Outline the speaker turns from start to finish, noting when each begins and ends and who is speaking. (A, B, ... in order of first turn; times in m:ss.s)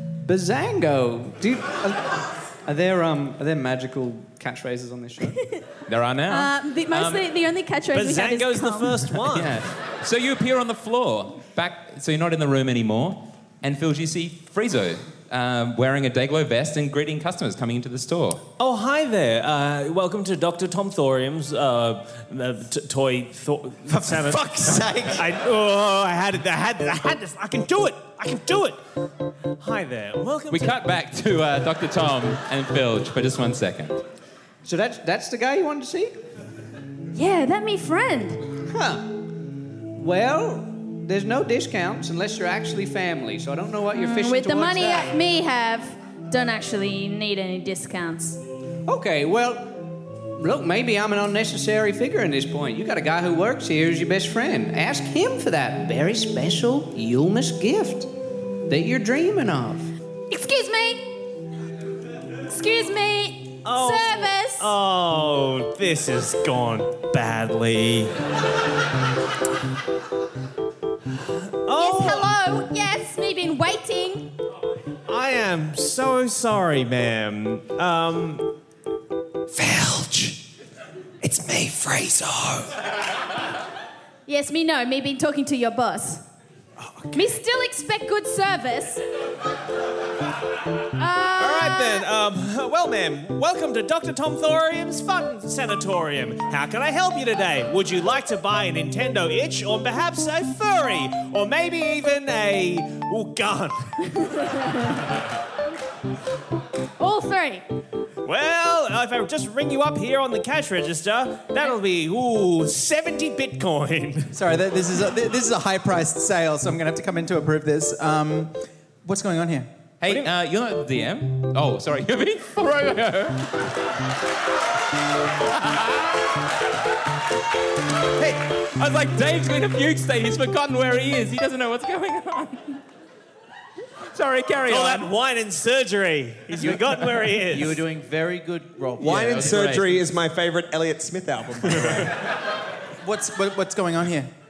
0:00.2-0:05.4 A
0:05.9-0:07.3 B
0:06.3-0:09.0 C
0:07.9-0:09.6 D
0:09.2-0:18.4 B
0:18.6-0:28.8 D
0:23.9-0:25.3 E
0:29.6-0:30.8 D
0:30.5-0:34.0 B
0:34.6-0:36.2 A
0:37.1-0:38.4 C
0:38.7-0:39.1 A
0:39.9-0:45.1 A
0:43.9-0:48.4 C
0:48.8-0:58.1 A
0:58.7-0:59.9 A
1:00.3-1:01.2 C
1:02.5-1:04.7 C
1:03.6-1:08.1 D
1:11.6-1:12.4 D
1:11.7-1:14.3 C
1:15.1-1:18.5 D
1:19.5-1:20.4 D
1:21.2-1:22.8 D
1:24.3-1:26.2 C
1:26.8-1:27.2 D
1:27.1-1:29.0 C
1:31.0-1:32.1 C
1:31.4-1:43.9 D
1:44.1-1:45.0 C
1:47.0-1:47.6 C
1:48.2-1:54.3 D
1:54.3-1:59.7 E
2:00.0-2:03.5 B
2:05.5-2:06.3 B
2:08.4-2:12.8 B
2:14.1-2:15.1 B
2:14.7-2:17.8 D
2:17.3-2:20.0 F
2:19.0-2:22.2 G
2:23.0-2:24.3 E